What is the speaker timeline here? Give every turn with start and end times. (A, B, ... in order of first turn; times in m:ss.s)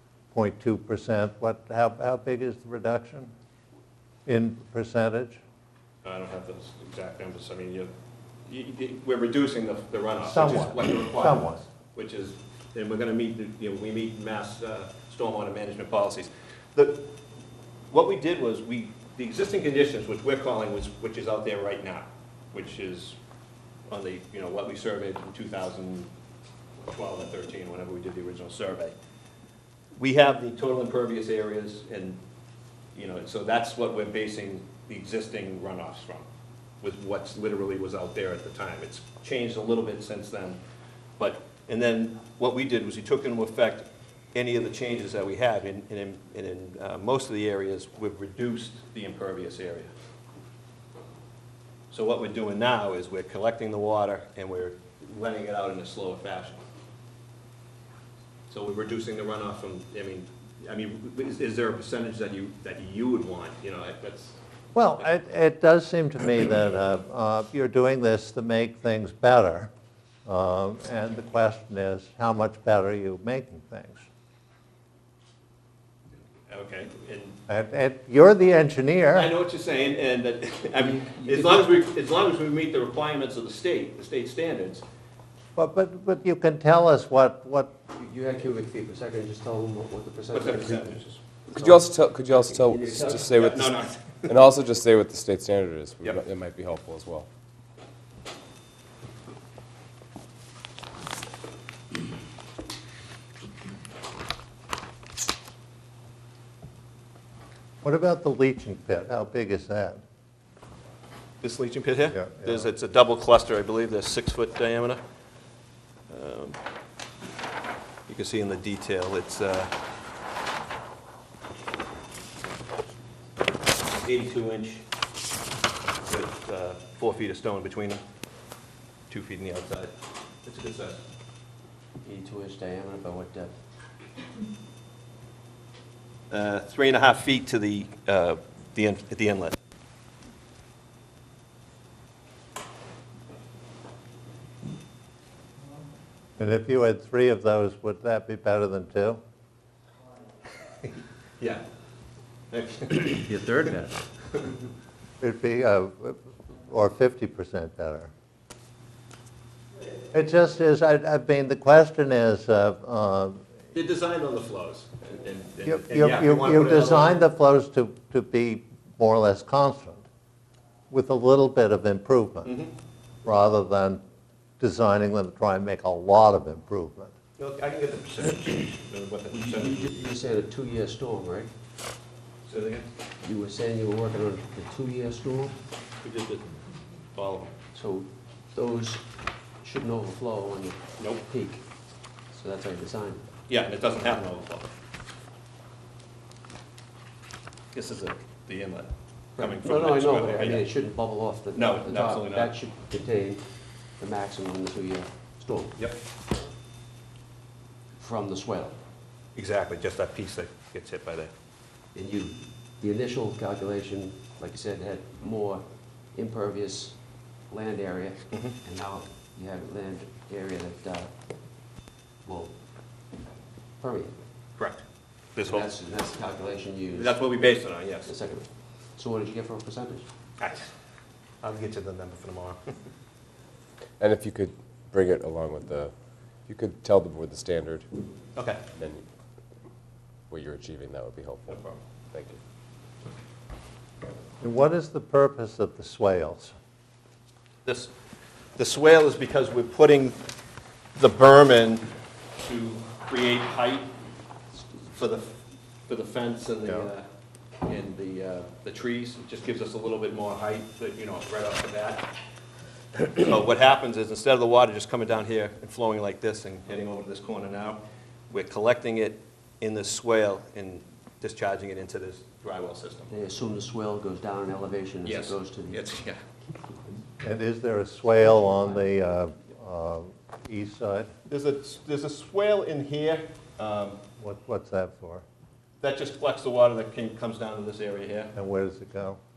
0:00.3-0:03.3 A
0:04.3-0:05.4 A
0:06.0-0:07.9 B
0:08.5-0:17.0 B
0:10.2-0:11.6 A
0:17.9-0:23.2 B
0:23.9-0:26.1 B
0:26.9-0:28.9 B
0:30.0-0:32.2 B
0:33.0-0:36.3 B
0:36.8-0:40.6 B
0:41.2-0:49.9 B
0:51.9-0:56.6 B
0:58.5-1:04.4 B
1:04.8-1:09.7 A
1:10.3-1:14.1 A
1:16.5-1:17.4 B
1:17.5-1:19.3 A
1:19.2-1:24.8 B
1:20.8-1:21.6 C
1:25.6-1:27.7 A
1:27.9-1:31.0 C
1:30.3-1:31.2 B
1:31.5-1:37.3 D
1:31.5-1:33.3 C
1:33.0-1:34.4 B
1:47.8-1:50.0 A
1:51.4-1:55.0 B
1:52.1-1:52.6 A
1:56.1-1:56.6 B
1:58.1-1:59.7 B
2:04.0-2:04.8 B
2:06.1-2:08.0 B
2:09.1-2:09.9 B
2:10.4-2:11.0 B
2:12.0-2:13.6 C
2:16.3-2:19.6 B
2:26.4-2:29.2 A
2:32.5-2:33.4 B
2:33.2-2:34.0 C
2:35.2-2:38.1 A
2:40.1-2:43.4 A
2:43.7-2:47.2 B
2:45.6-2:50.1 A
2:50.9-2:52.5 A
2:52.4-2:52.7 B
2:53.2-2:54.0 A
2:54.6-2:57.1 A
2:57.4-3:00.0 B
2:59.3-3:01.5 C
3:02.5-3:02.9 B
3:03.2-3:05.6 C
3:06.0-3:06.5 B
3:07.2-3:07.6 B
3:07.8-3:09.0 C
3:09.6-3:11.6 C
3:12.3-3:13.3 C
3:13.5-3:14.7 B
3:17.7-3:20.7 B
3:19.4-3:23.4 C
3:21.5-3:22.5 B
3:24.0-3:25.8 C
3:28.0-3:28.8 C
3:29.4-3:31.3 B
3:32.0-3:35.6 C
3:36.2-3:37.0 C
3:37.5-3:41.1 C
3:42.2-3:42.5 C
3:43.8-3:44.2 C
3:45.4-3:45.7 B
3:45.4-3:47.2 C
3:47.0-3:48.1 B
3:48.0-3:50.1 C
3:50.4-3:50.7 B
3:51.4-3:52.7 B
3:54.0-3:55.9 D
3:56.5-3:57.9 D
3:58.4-3:58.6 B
3:58.8-3:59.0 D
4:00.3-4:01.6 D
4:01.5-4:01.8 B
4:02.1-4:02.4 D
4:04.4-4:06.6 A
4:07.6-4:07.9 B
4:08.6-4:10.2 B
4:11.0-4:11.9 B
4:12.4-4:13.9 B
4:14.9-4:15.3 B
4:15.9-4:17.1 B
4:17.6-4:22.1 B
4:23.2-4:33.1 B
4:33.1-4:35.8 C
4:35.0-4:36.2 B
4:37.2-4:41.1 A
4:38.3-4:38.8 C
4:41.3-4:44.0 B
4:44.2-4:45.2 A
4:45.8-4:48.3 B
4:48.4-4:49.2 A